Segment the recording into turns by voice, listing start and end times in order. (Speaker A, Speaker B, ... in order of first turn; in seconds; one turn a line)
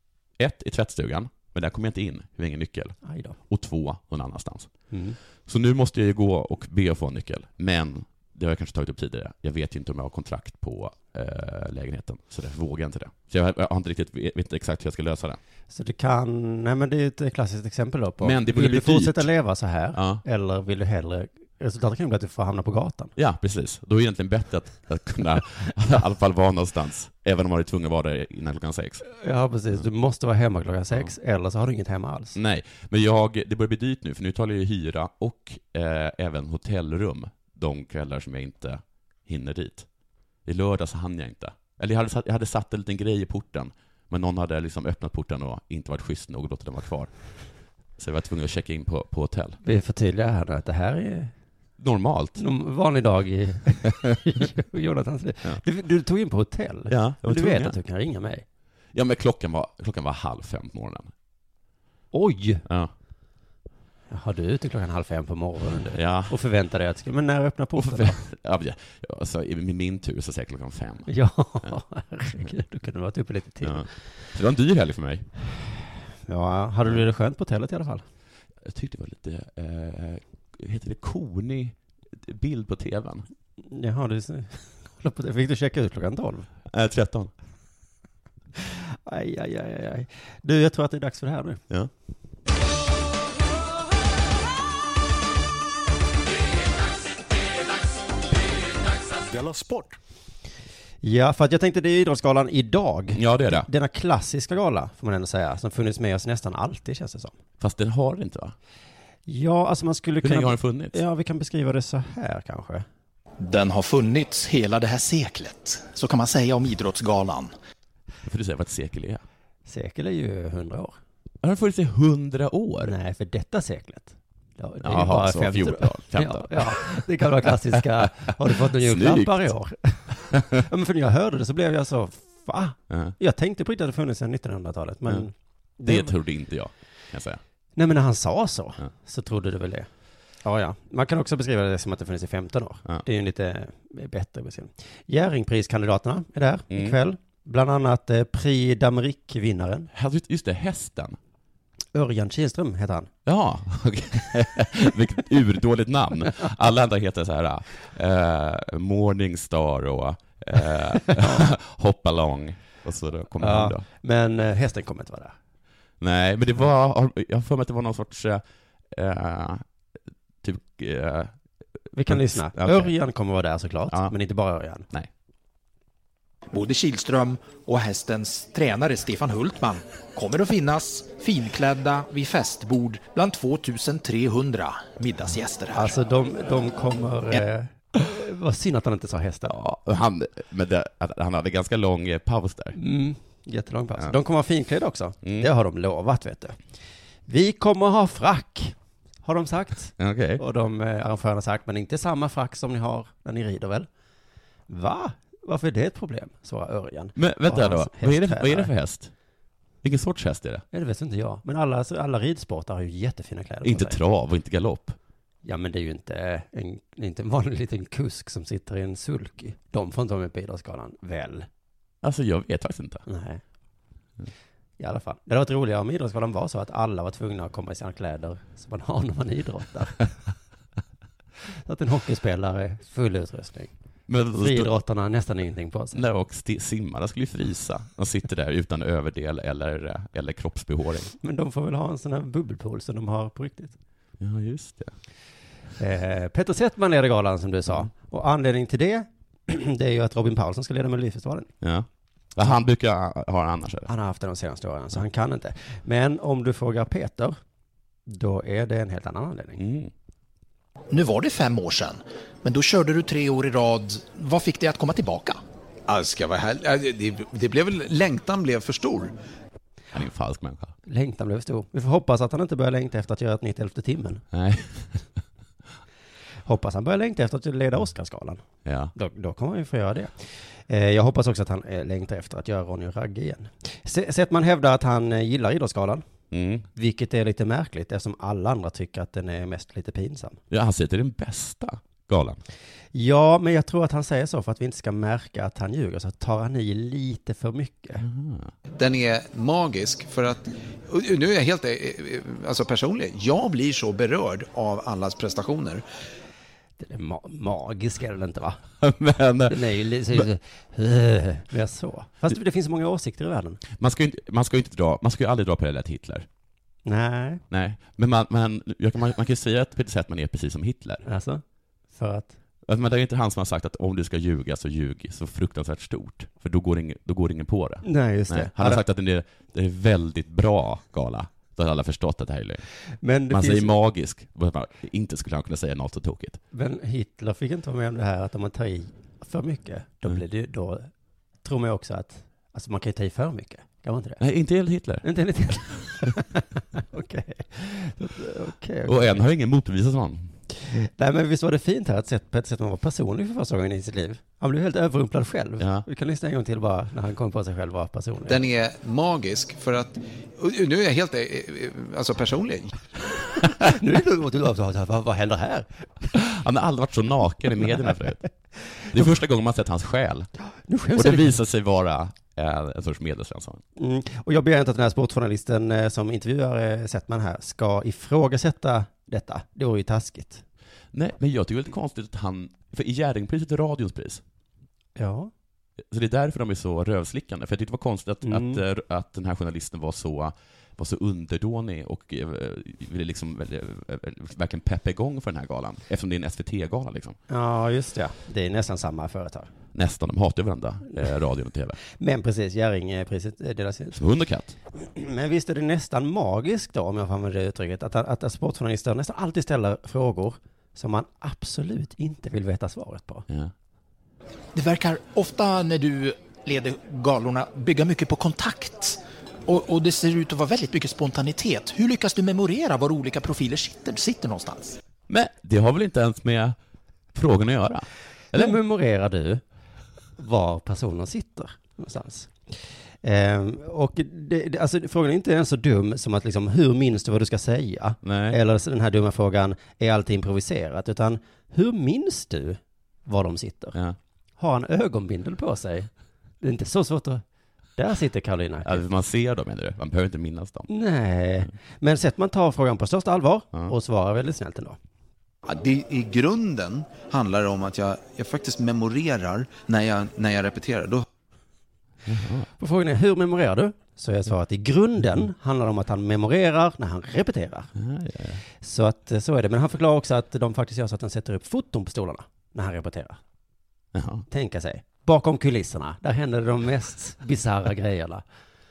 Speaker A: 0.4-3.0
Speaker B: 3.0-3.4
Speaker A: 3.5-4.7
Speaker B: 4.9-5.2
Speaker A: 5.5-15.4
Speaker B: 15.7-23.1
Speaker A: 18.2-19.3
Speaker A: 19.9-20.2
Speaker A: 23.2-29.0
Speaker B: 29.1-32.4
Speaker A: 32.4-39.9
Speaker A: 40.5-47.1
Speaker A: 48.0-49.6
Speaker B: 49.6-51.3
Speaker A: 51.8-52.4
Speaker B: 52.4-58.5
Speaker A: 56.9-57.8
Speaker A: 58.9-61.1
Speaker B: 62.1-62.6
Speaker A: 62.7-62.9
Speaker B: 64.1-68.2
Speaker A: 65.9-66.3
Speaker A: 67.8-71.1
Speaker B: 71.1-73.9
Speaker A: 73.6-75.3
Speaker B: 76.3-78.0
Speaker A: 78.6-83.3
Speaker B: 83.7-86.5
Speaker A: 86.7-87.3
Speaker B: 89.1-91.6
Speaker B: 101.0-107.4
Speaker A: 103.2-103.7
Speaker A: 107.6-108.5
Speaker B: 109.3-112.9
Speaker A: 110.2-111.0
Speaker C: 113.4-117.5
Speaker A: 118.2-119.2
Speaker B: 119.7-121.0
Speaker A: 121.4-123.0
Speaker B: 122.8-136.1
Speaker A: 124.8-127.0
Speaker A: 127.7-129.5
Speaker A: 132.9-133.2
Speaker A: 135.8-137.4
Speaker B: 137.8-139.9
Speaker B: 140.4-149.9
Speaker A: 146.7-147.0
Speaker A: 149.9-151.2
Speaker B: 151.9-153.1
Speaker A: 153.2-163.8
Speaker B: 161.1-161.5
Speaker B: 163.4-165.4
Speaker A: 166.0-169.7
Speaker A: 170.4-171.3
Speaker B: 171.9-174.9
Speaker A: 172.1-172.9
Speaker C: 176.5-186.0
Speaker B: 185.7-189.5
Speaker A: 189.4-192.8
Speaker B: 192.8-196.6
Speaker A: 195.2-195.5
Speaker B: 197.3-203.9
Speaker A: 200.0-200.4
Speaker B: 204.7-208.7
Speaker A: 207.2-209.1
Speaker A: 209.8-210.6
Speaker B: 210.7-214.0
Speaker A: 213.6-215.0
Speaker B: 215.4-221.5
Speaker A: 222.0-223.1
Speaker B: 223.1-223.4
Speaker B: 224.8-230.2
Speaker B: 231.5-233.7
Speaker A: 234.1-234.7
Speaker B: 234.4-236.0
Speaker A: 235.9-241.1
Speaker B: 241.2-243.8
Speaker A: 244.2-244.9
Speaker B: 245.8-251.5
Speaker A: 251.6-253.9
Speaker B: 253.9-257.4
Speaker B: 258.1-259.6
Speaker A: 259.6-259.9
Speaker C: 260.9-265.4
Speaker D: 265.9-269.1
Speaker A: 269.9-270.8
Speaker B: 270.9-274.2
Speaker A: 274.3-275.0
Speaker B: 276.5-278.4
Speaker A: 278.6-278.9
Speaker B: 278.9-286.1
Speaker A: 286.3-286.7
Speaker B: 286.8-290.4
Speaker A: 290.5-292.4
Speaker B: 292.9-298.0
Speaker A: 298.0-298.5
Speaker D: 298.8-305.8
Speaker B: 306.8-308.6
Speaker A: 308.8-310.2
Speaker B: 309.5-313.6
Speaker A: 313.7-316.3
Speaker B: 316.9-317.4
Speaker A: 317.5-321.0
Speaker B: 321.1-322.4
Speaker A: 322.7-332.6
Speaker B: 327.8-328.8
Speaker B: 333.0-333.7
Speaker A: 333.3-336.4
Speaker B: 336.5-340.9
Speaker B: 341.4-344.2
Speaker A: 344.2-345.1
Speaker B: 345.0-349.2
Speaker A: 348.9-350.4
Speaker B: 350.5-358.4
Speaker A: 355.6-355.9
Speaker D: 358.3-362.9
Speaker B: 363.4-366.1
Speaker A: 366.1-368.2
Speaker A: 368.9-370.3
Speaker B: 370.7-371.4
Speaker A: 370.9-373.6
Speaker B: 373.8-380.4
Speaker A: 380.9-384.2
Speaker B: 385.0-385.3
Speaker A: 385.9-397.2
Speaker B: 388.2-388.6
Speaker B: 397.3-399.5
Speaker A: 399.7-401.8
Speaker B: 401.9-404.0
Speaker A: 403.9-404.6
Speaker B: 404.8-413.3
Speaker A: 413.3-413.5
Speaker C: 414.6-424.8
Speaker A: 425.1-426.6
Speaker A: 427.1-428.6
Speaker B: 428.3-429.4
Speaker B: 430.2-432.4
Speaker B: 433.0-443.8
Speaker A: 438.0-438.4
Speaker B: 444.4-445.9
Speaker B: 446.4-447.2
Speaker B: 447.8-448.8
Speaker A: 448.6-450.7
Speaker B: 450.7-454.8
Speaker D: 455.4-461.1
Speaker A: 462.1-462.5
Speaker B: 462.6-467.7
Speaker A: 467.8-468.4
Speaker B: 468.6-473.2
Speaker A: 473.9-474.3
Speaker B: 474.3-478.2